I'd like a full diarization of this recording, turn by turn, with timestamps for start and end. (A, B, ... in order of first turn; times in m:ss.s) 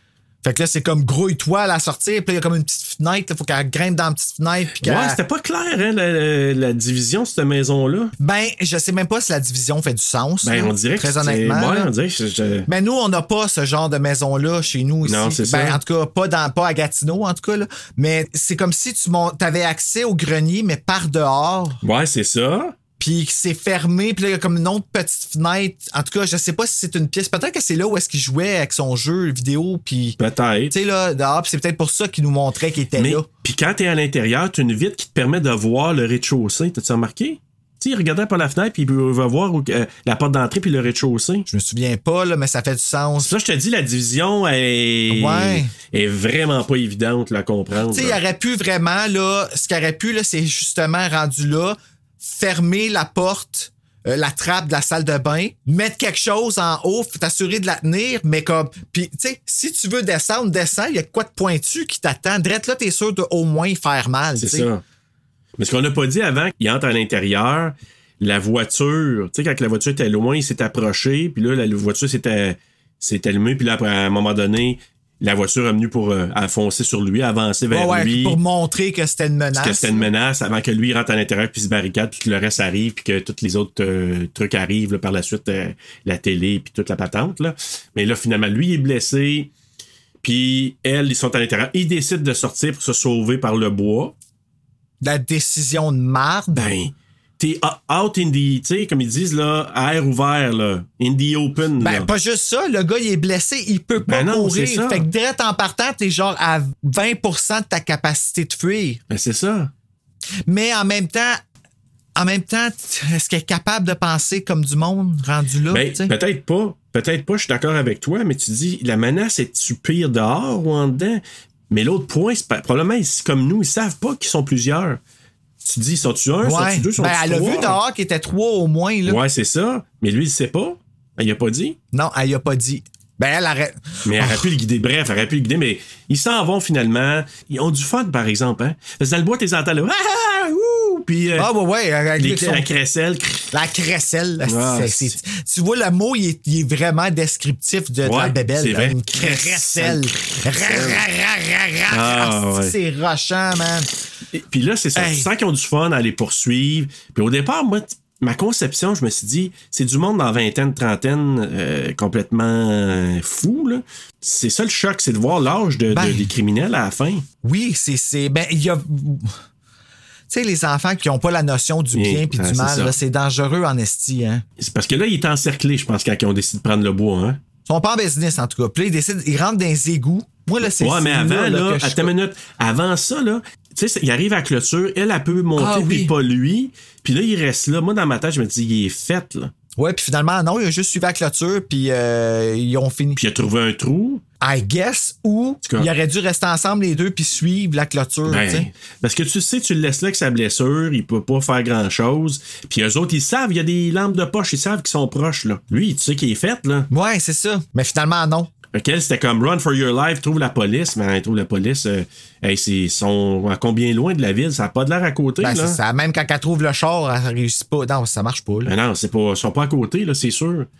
0:00.4-0:05.2 A
0:04.8-0:08.1 B
0:08.2-0:11.9 A
0:10.4-0:12.7 B
0:12.7-0:21.8 A
0:15.0-0:15.8 B
0:21.8-0:22.8 B
0:23.0-0:30.2 A
0:30.2-0:30.7 B
0:30.7-0:33.2 A
0:33.0-0:41.5 B
0:41.5-0:43.3 A
0:43.2-0:48.2 B
0:45.1-0:45.7 A
0:47.9-1:04.7 A
1:04.4-1:04.8 B
1:05.6-1:18.4 B
1:17.7-1:20.0 A
1:19.5-1:29.5 B
1:30.2-1:34.1 B
1:35.0-1:36.7 A
1:36.5-1:42.1 B
1:41.8-1:49.0 A
1:44.0-1:45.0 B
1:49.1-1:49.7 B
1:50.5-1:51.4 A
1:52.2-1:56.1 A
1:55.7-2:05.0 B
2:05.6-2:07.8 B
2:06.4-2:09.2 A
2:09.0-2:11.8 B
2:11.9-2:14.5 A
2:14.0-2:21.5 B
2:21.4-2:22.7 A
2:22.2-2:23.5 B
2:23.5-2:33.9 A
2:24.4-2:25.2 B
2:28.0-2:31.0 B
2:31.9-2:32.7 B
2:34.3-2:47.2 B
2:35.0-2:35.3 A
2:45.9-2:46.3 A
2:47.4-2:49.4 A
2:50.3-2:54.4 A
2:51.9-2:53.0 B
2:54.6-2:57.4 B
2:57.7-3:02.1 A
3:00.6-3:09.5 B
3:05.5-3:06.1 A
3:09.8-3:13.2 A
3:13.2-3:14.2 B
3:14.4-3:18.7 A
3:15.6-3:15.9 B
3:18.2-3:26.9 B
3:26.9-3:28.5 A
3:28.7-3:35.8 B
3:35.4-3:38.7 A
3:38.6-3:40.7 B